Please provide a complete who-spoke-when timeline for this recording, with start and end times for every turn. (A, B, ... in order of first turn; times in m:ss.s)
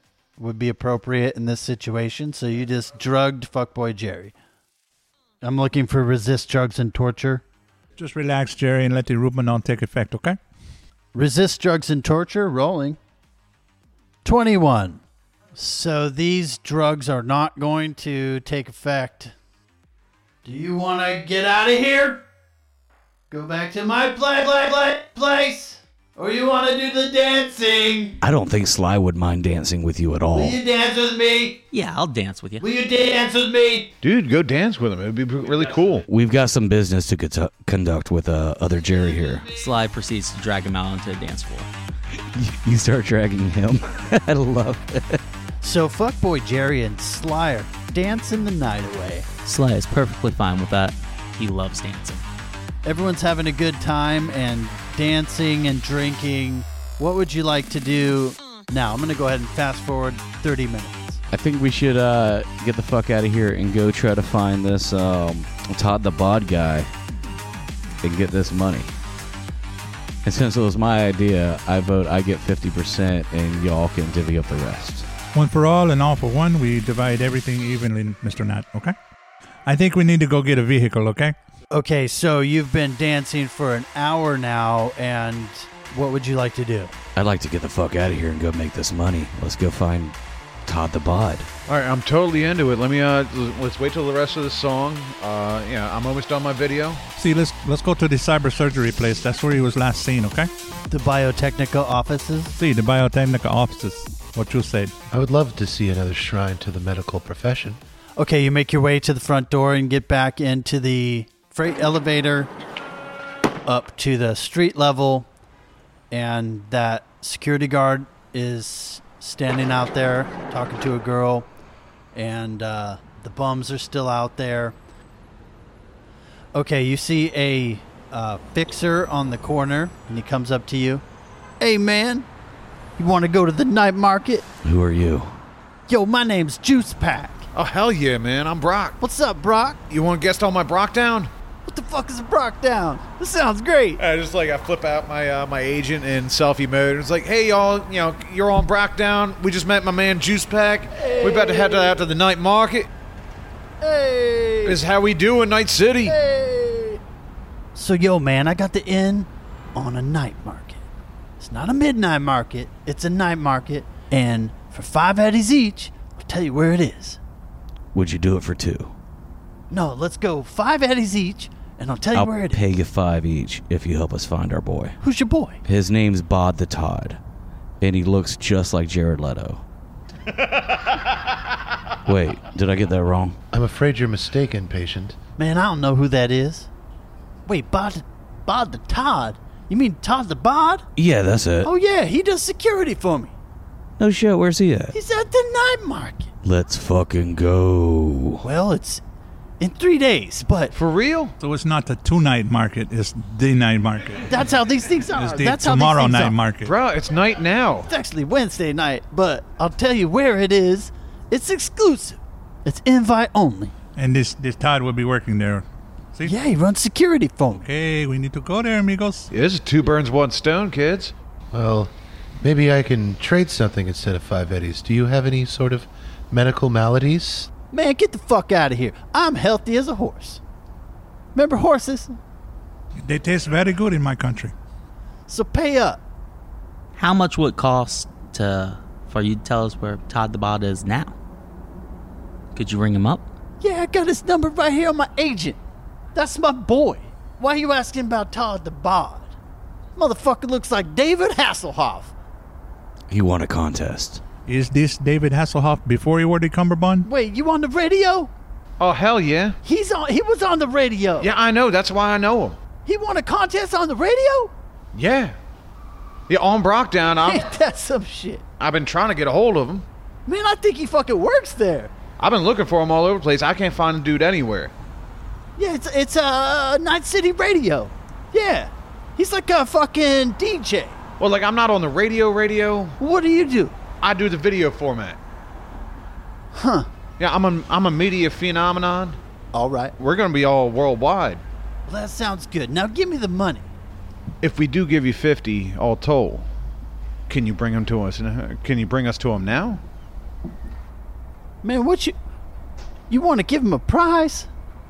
0:00.4-0:04.3 A
0:05.4-0:07.4 A
0:08.0-0:10.4 B
0:11.1-0:13.0 A
0:14.2-0:15.0 A
0:15.5-0:19.3 A
0:20.4-0:22.2 A
0:23.3-0:28.2 A
0:28.2-0:30.6 C
0:30.3-0:31.6 A
0:31.7-0:32.6 D
0:32.6-0:33.9 A
0:34.0-0:36.1 E
0:36.1-0:39.4 C
0:39.1-0:39.6 A
0:39.5-0:41.7 D
0:42.2-0:45.2 C
0:45.6-0:49.3 A
0:49.4-0:52.2 D
0:52.8-1:01.2 A
1:01.3-1:06.9 C
1:08.0-1:08.9 C
1:10.2-1:15.1 C
1:15.3-1:18.9 B
1:19.6-1:21.3 B
1:21.7-1:26.9 A
1:27.1-1:31.5 C
1:31.7-1:37.0 E
1:37.2-1:40.5 B
1:40.9-1:42.6 A
1:42.6-1:44.9 B
1:45.1-1:47.8 F
1:48.2-1:52.5 A
1:53.6-1:55.3 A
1:56.1-2:01.5 A
2:02.1-2:04.8 A
2:06.5-2:11.0 A
2:11.6-2:12.3 A
2:13.0-2:14.4 A
2:14.6-2:15.4 C
2:15.9-2:17.5 A
2:17.5-2:19.0 E
2:19.0-2:19.8 A
2:19.9-2:21.3 E
2:21.6-2:24.0 A
2:24.0-2:32.9 E
2:31.0-2:31.9 A
2:33.8-2:34.8 A
2:34.6-2:36.2 E
2:36.0-2:37.0 A
2:37.7-2:40.8 A
2:41.4-2:47.2 A
2:47.9-2:49.0 C
2:49.7-2:52.6 A
2:52.1-2:55.0 C
2:55.0-2:55.6 A
2:55.6-2:57.2 C
2:57.8-2:59.6 C
3:02.0-3:03.4 C
3:03.5-3:05.2 F
3:05.4-3:06.7 A
3:07.4-3:10.8 A
3:11.0-3:11.7 C
3:11.6-3:13.3 A
3:14.0-3:14.9 C
3:14.9-3:16.3 A
3:16.4-3:18.4 C
3:18.4-3:19.0 A
3:19.6-3:20.7 A
3:20.7-3:21.3 E
3:21.4-3:24.3 B
3:24.2-3:26.4 A
3:25.2-3:26.7 B
3:26.6-3:27.9 E
3:27.9-3:33.7 A
3:34.0-3:36.3 B
3:36.2-3:37.6 A
3:37.6-3:39.3 B
3:39.3-3:41.1 E
3:41.5-3:47.5 F
3:47.7-3:50.4 A
3:51.3-3:52.2 A
3:53.0-3:54.5 B
3:55.3-3:56.0 A
3:57.0-4:01.1 D
4:02.5-4:03.2 D
4:03.6-4:05.6 A
4:06.1-4:09.3 A
4:10.0-4:12.1 A
4:13.1-4:14.2 C
4:14.4-4:17.0 B
4:17.0-4:18.3 A
4:18.8-4:19.6 E
4:19.6-4:21.3 A
4:21.2-4:22.6 E
4:22.8-4:24.5 A
4:24.9-4:25.3 E
4:26.3-4:27.5 E
4:27.2-4:28.4 A
4:28.6-4:29.8 E
4:30.2-4:31.9 A
4:32.2-4:34.7 E
4:35.6-4:41.0 A
4:41.2-4:43.0 E
4:43.0-4:43.8 A
4:44.0-4:45.2 E
4:46.5-4:46.9 A
4:47.2-4:49.2 E
4:49.5-4:49.9 A
4:50.0-4:51.4 E
4:51.9-4:53.6 A
4:54.4-4:56.5 E
4:57.3-4:59.8 E
5:01.6-5:02.1 A
5:03.1-5:04.5 A